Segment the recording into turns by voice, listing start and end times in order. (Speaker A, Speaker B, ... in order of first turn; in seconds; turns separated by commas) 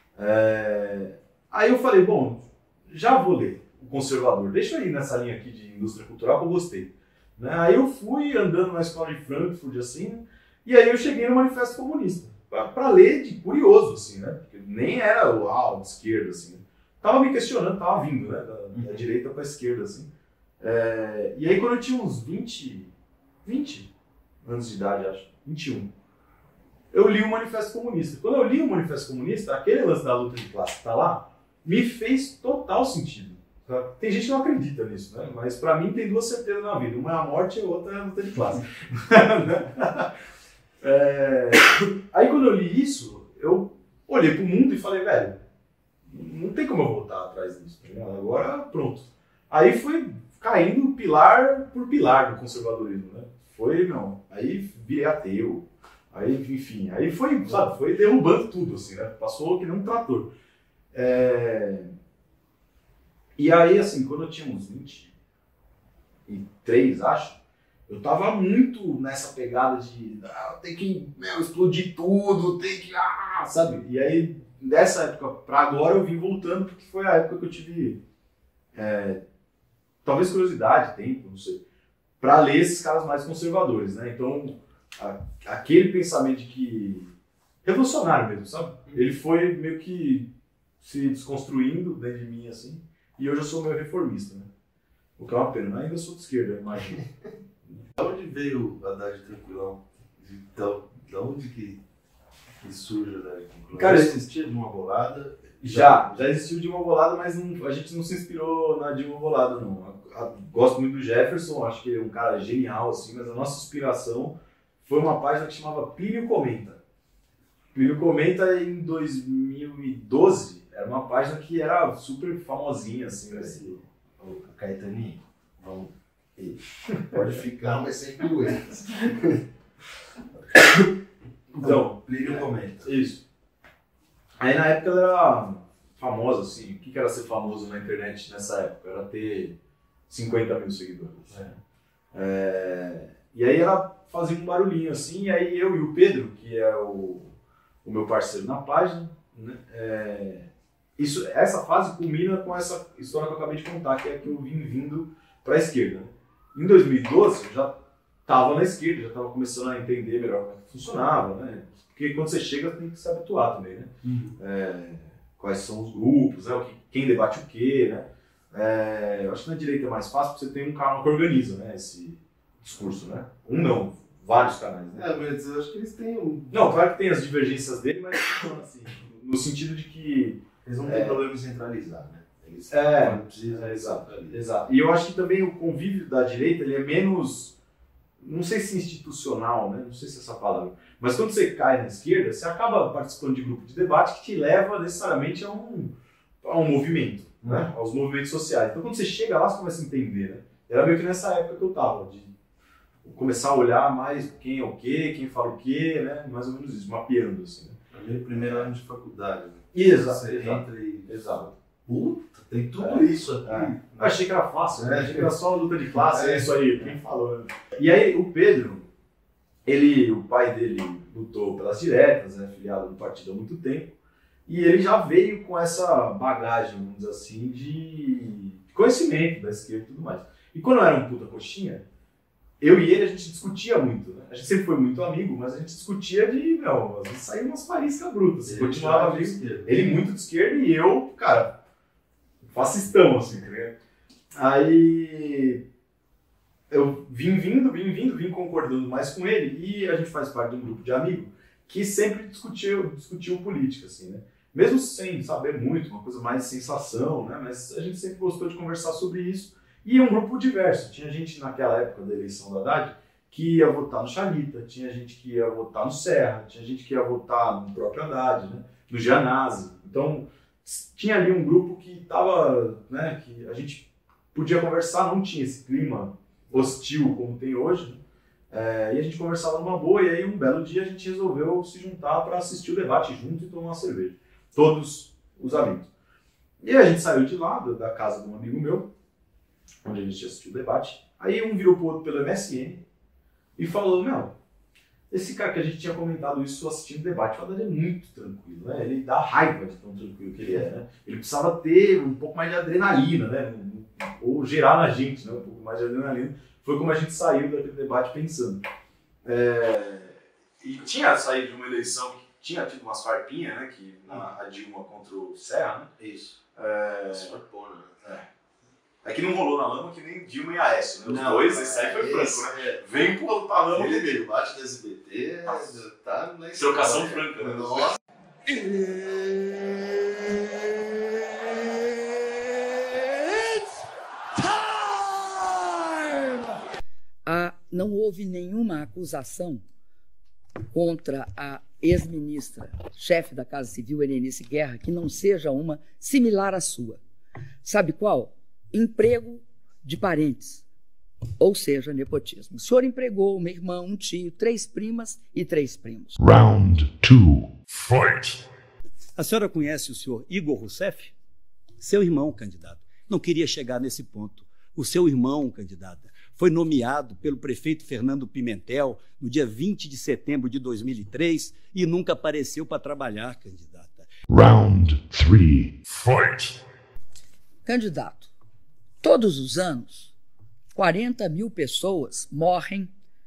Speaker A: 0.2-20.1, Speaker B: 18.7-19.1, Speaker A: 20.6-22.9, Speaker A: 23.4-23.9, Speaker A: 24.4-25.9, Speaker A: 26.9-40.1, Speaker A: 40.8-45.4, Speaker A: 46.1-60.3, Speaker A: 60.9-61.9, Speaker A: 63.4-65.1, Speaker A: 66.3-67.4, Speaker A: 67.9-78.0, Speaker A: 78.8-79.2, Speaker A: 80.0-81.6, Speaker A: 82.2-87.1, Speaker A: 87.6-90.3, Speaker A: 90.8-94.5, Speaker A: 95.2-97.0, Speaker B: 98.0-101.8, Speaker B: 102.6-106.3, Speaker A: 103.7-104.2, Speaker A: 105.6-116.8, Speaker A: 117.7-123.8, Speaker B: 123.3-129.4, Speaker A: 127.0-127.4, Speaker A: 131.5-133.2, Speaker B: 131.6-132.9, Speaker A: 134.4-139.5, Speaker A: 140.1-141.5, Speaker B: 141.3-141.6, Speaker A: 142.1-147.3, Speaker A: 147.8-157.7, Speaker A: 158.3-175.1, Speaker B: 164.0-164.4, Speaker B: 173.5-173.8, Speaker B: 174.9-176.7, Speaker A: 176.5-181.2, Speaker B: 180.7-184.4, Speaker A: 182.7-187.5, Speaker A: 188.2-202.3, Speaker B: 197.4-197.7, Speaker A: 203.0-207.8, Speaker B: 207.9-214.2, Speaker A: 208.3-208.7, Speaker A: 209.7-211.5, Speaker A: 212.8-218.9, Speaker B: 214.8-215.3, Speaker B: 215.9-217.0, Speaker A: 219.7-223.9, Speaker A: 224.5-231.8, Speaker A: 232.6-241.5, Speaker B: 238.4-240.0, Speaker A: 242.4-243.8, Speaker A: 244.3-245.6, Speaker A: 246.7-278.0, Speaker A: 278.5-285.9, Speaker A: 286.6-288.9, Speaker A: 289.8-292.8, Speaker A: 293.6-294.3, Speaker A: 295.1-308.6, Speaker A: 309.2-315.9, Speaker B: 316.0-316.4, Speaker A: 316.6-317.3, Speaker B: 317.1-318.0, Speaker A: 319.0-324.2, Speaker B: 321.0-322.8, Speaker B: 323.6-332.1, Speaker A: 325.5-325.8, Speaker A: 326.6-328.0, Speaker C: 337.2-339.6, Speaker C: 340.7-347.0, Speaker C: 347.6-350.6, Speaker C: 351.4-356.2, Speaker D: 356.2-358.5, Speaker E: 359.2-361.1, Speaker E: 361.8-374.1, Speaker D: 374.3-376.6, Speaker C: 377.6-378.3, Speaker C: 379.0-380.1, Speaker C: 380.7-382.9